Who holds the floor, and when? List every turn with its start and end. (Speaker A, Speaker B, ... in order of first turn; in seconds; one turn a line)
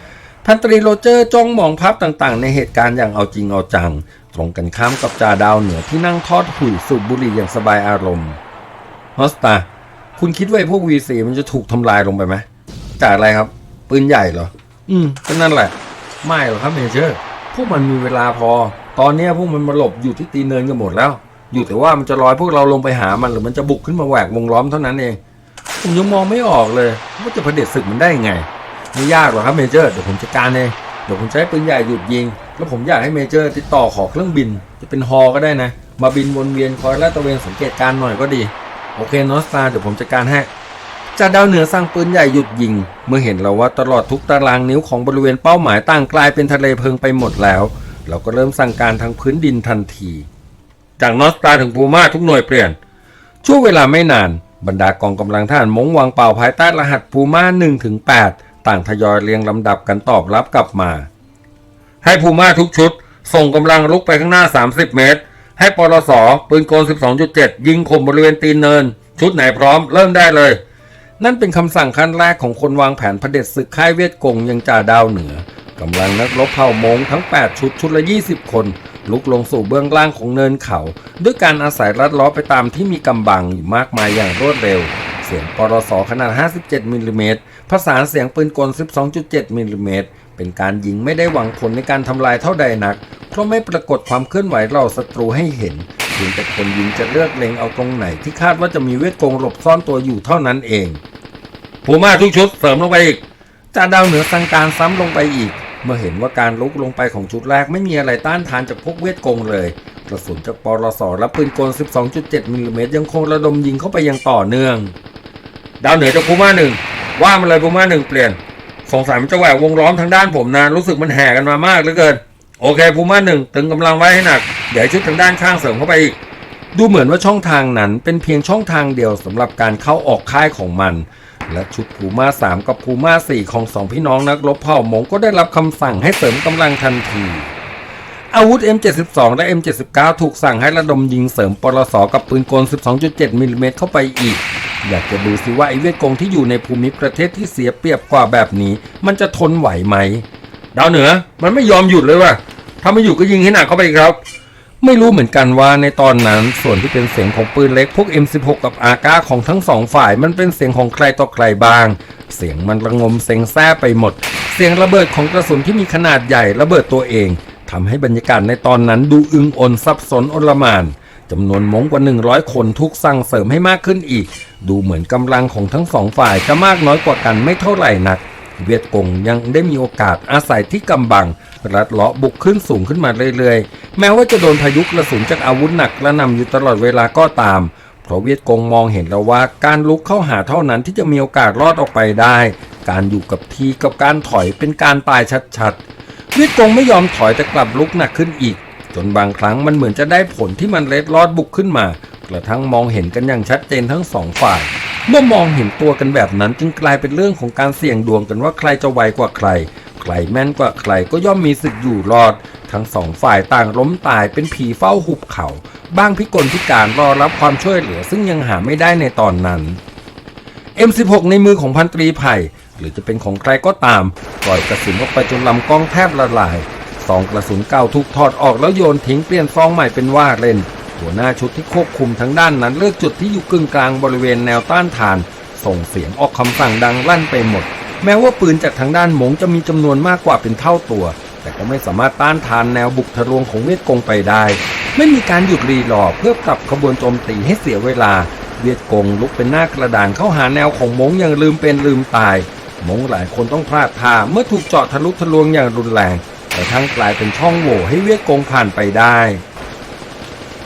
Speaker A: 0.4-8.4
Speaker A: 9.2-9.7
Speaker A: 10.2-12.4
Speaker A: 13.0-25.2
Speaker A: 25.8-40.5
Speaker A: 41.1-50.3
Speaker A: 51.0-52.8
Speaker A: 53.4-61.1
Speaker A: 62.0-70.6
Speaker A: 71.2-101.0
Speaker A: 101.8-103.2
Speaker A: 103.7-114.9
Speaker A: 115.8-126.2
Speaker A: 126.7-137.5
Speaker A: 138.3-154.2
Speaker A: 154.8-195.8
Speaker A: 196.3-219.8
Speaker A: 220.8-259.4